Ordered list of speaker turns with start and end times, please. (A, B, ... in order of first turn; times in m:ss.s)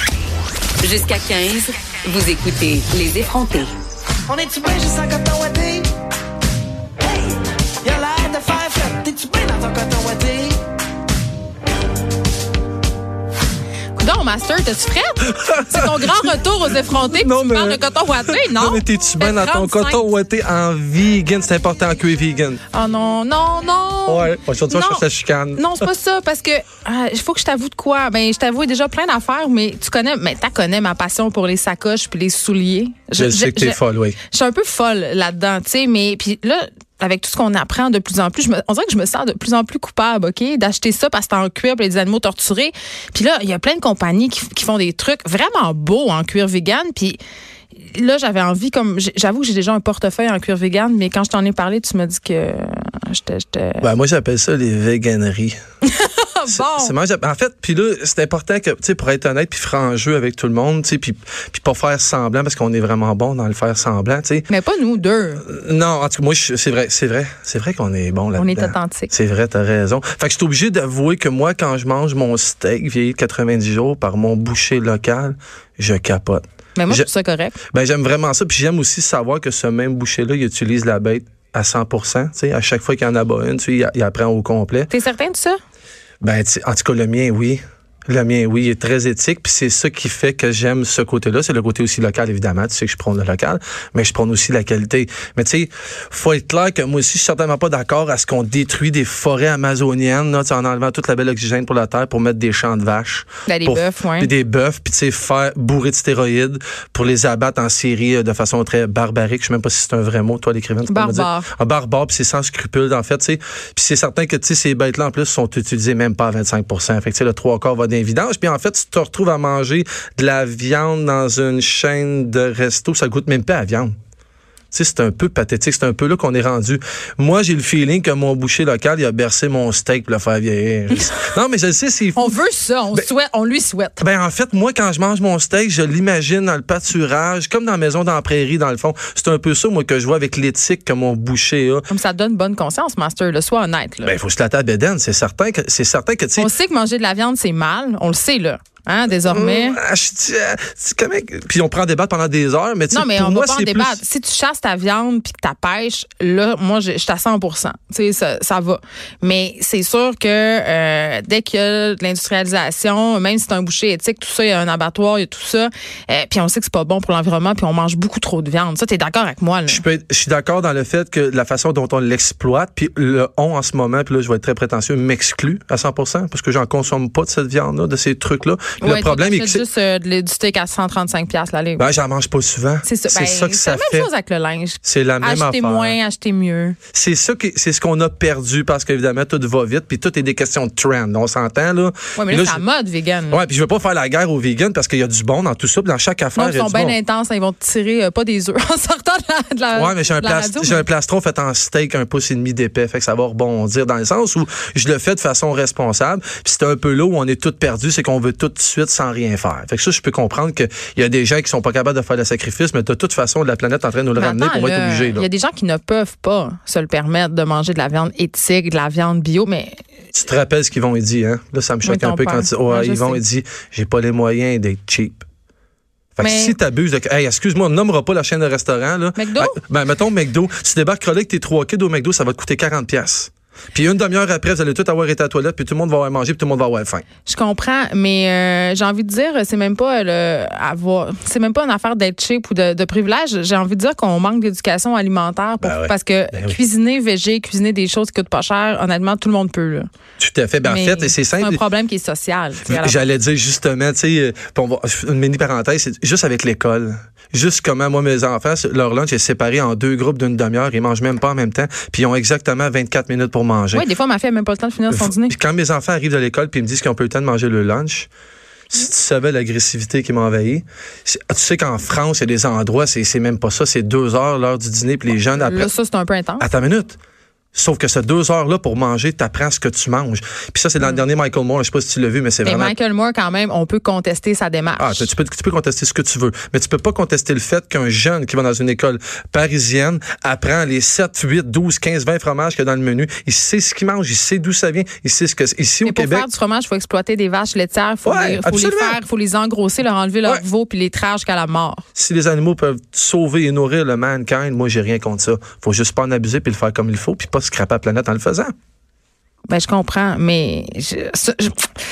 0:00.8-0:03.7 A
0:04.3-0:05.9 B
0:07.8-0:10.6 B
0:14.0-0:20.0 C
0:15.3-0:22.6 D
0:22.7-0:25.0 C
0:24.1-0:25.8 D
0:25.6-0:47.2 C
0:33.2-0:34.2 D
0:47.8-0:53.9 C
0:53.8-0:55.6 D
0:55.8-0:56.9 C
0:56.5-1:04.5 D
1:04.5-1:05.4 C
1:05.4-1:17.1 D
1:08.4-1:09.1 C
1:16.8-1:17.6 C
1:17.7-1:24.9 D
1:24.9-1:25.6 C
1:26.2-2:03.9 D
1:43.5-1:44.3 C
1:50.9-1:51.5 C
2:04.7-2:12.3 D
2:10.9-2:11.2 C
2:12.2-2:14.0 C
2:14.0-2:21.8 D
2:21.9-2:24.1 C
2:24.0-2:26.5 D
2:26.4-2:29.8 C
2:29.3-2:34.0 D
2:32.9-2:49.8 C
2:49.7-2:59.6 D
2:58.8-3:01.9 C
3:01.8-3:04.1 D
3:02.8-3:06.8 C
3:04.8-3:06.0 D
3:06.9-3:12.6 D
3:12.2-3:13.4 C
3:13.3-3:17.0 D
3:16.4-3:20.8 C
3:19.8-3:35.3 D
3:34.2-3:39.8 C
3:40.1-3:45.3 D
3:41.8-3:43.2 C
3:46.2-3:57.0 D
3:46.2-3:46.6 C
3:49.2-3:49.6 C
3:57.2-4:09.9 C
4:05.6-4:06.6 D
4:10.2-4:11.6 D
4:10.6-4:13.0 C
4:12.7-4:23.9 D
4:23.7-4:25.4 C
4:24.9-4:28.1 D
4:28.7-4:35.7 D
4:35.4-4:36.5 C
4:36.4-4:37.0 D
4:37.5-4:42.7 D
4:42.4-4:45.1 C
4:44.8-4:56.3 D
4:55.8-5:01.8 C
4:58.0-4:59.0 D
5:02.0-5:08.5 D
5:09.5-5:11.7 C